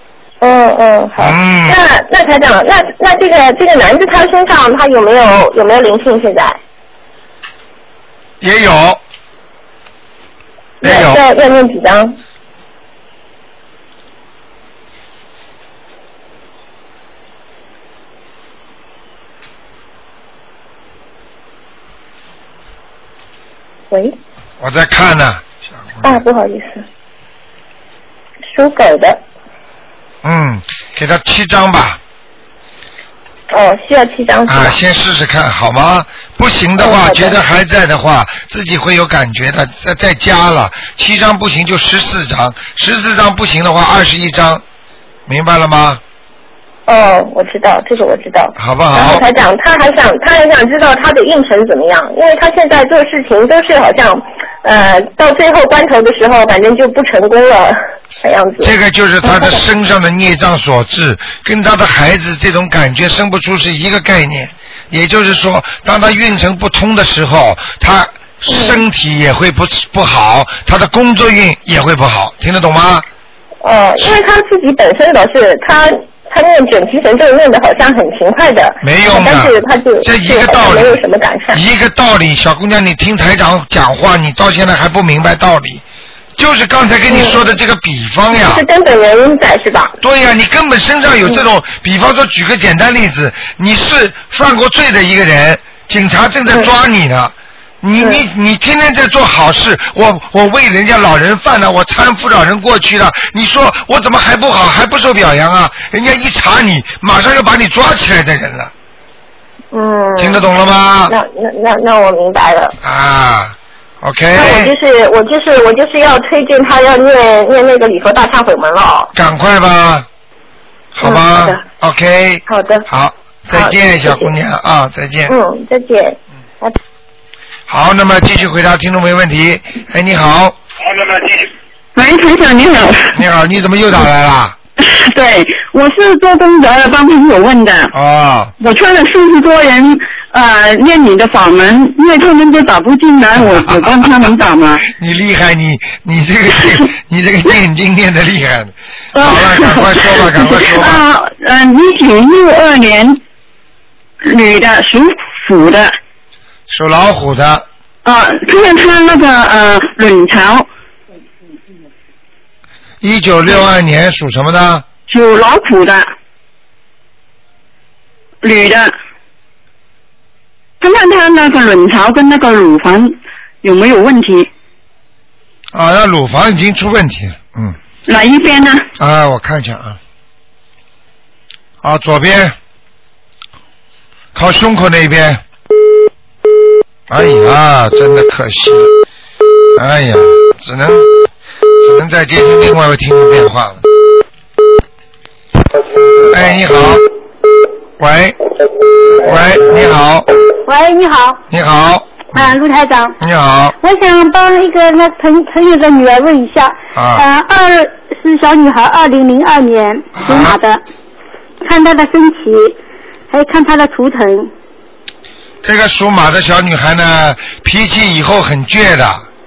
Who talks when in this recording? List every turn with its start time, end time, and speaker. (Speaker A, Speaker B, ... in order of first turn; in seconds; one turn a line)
Speaker A: 0.4-6.6
Speaker B: 1.2-1.8
Speaker B: 8.4-9.0
Speaker A: 10.8-12.2
Speaker B: 10.8-11.2
Speaker A: 23.9-24.1
Speaker B: 24.6-26.1
Speaker A: 26.0-26.8
Speaker A: 28.5-29.2
Speaker B: 30.2-32.0
Speaker A: 33.5-34.8
Speaker B: 34.5-44.6
Speaker A: 36.8-37.4
Speaker B: 45.3-46.0
Speaker A: 46.9-59.6
Speaker B: 48.5-49.2
Speaker B: 58.6-73.0
Speaker A: 68.5-68.8
Speaker A: 73.6-81.6
Speaker B: 78.8-81.0
Speaker B: 81.5-85.8
Speaker B: 86.3-88.6
Speaker A: 87.1-87.4
Speaker A: 88.4-89.9
Speaker B: 90.0-108.7
Speaker A: 109.7-110.4
Speaker B: 110.2-111.1
Speaker A: 111.1-112.7
Speaker B: 112.8-114.7
Speaker A: 114.3-119.1
Speaker B: 119.1-120.1
Speaker B: 120.9-125.3
Speaker A: 121.0-121.6
Speaker A: 122.5-122.8
Speaker A: 123.5-124.3
Speaker A: 125.3-126.8
Speaker B: 127.7-130.6
Speaker C: 131.9-133.2
Speaker B: 133.1-134.6
Speaker C: 134.8-137.9
Speaker B: 137.9-138.5
Speaker C: 138.6-144.8
Speaker B: 144.9-151.0
Speaker C: 149.1-153.2
Speaker C: 154.2-155.9
Speaker B: 156.7-157.7
Speaker C: 158.0-160.7
Speaker B: 163.0-164.8
Speaker C: 165.1-166.1
Speaker C: 168.4-168.9
Speaker C: 170.8-174.5
Speaker B: 175.7-177.8
Speaker C: 178.1-178.8
Speaker B: 179.0-180.0
Speaker B: 181.8-182.6
Speaker B: 184.3-185.4
Speaker B: 187.1-188.9
Speaker B: 189.7-191.1
Speaker B: 191.8-193.8
Speaker B: 196.2-197.0
Speaker B: 198.0-198.4
Speaker B: 199.1-200.3
Speaker D: 200.7-201.4
Speaker B: 201.5-202.5
Speaker D: 202.3-203.2
Speaker B: 203.2-203.7
Speaker D: 203.8-210.8
Speaker B: 206.9-207.2
Speaker B: 210.2-210.6
Speaker D: 211.6-212.8
Speaker D: 213.3-214.5
Speaker B: 215.6-219.2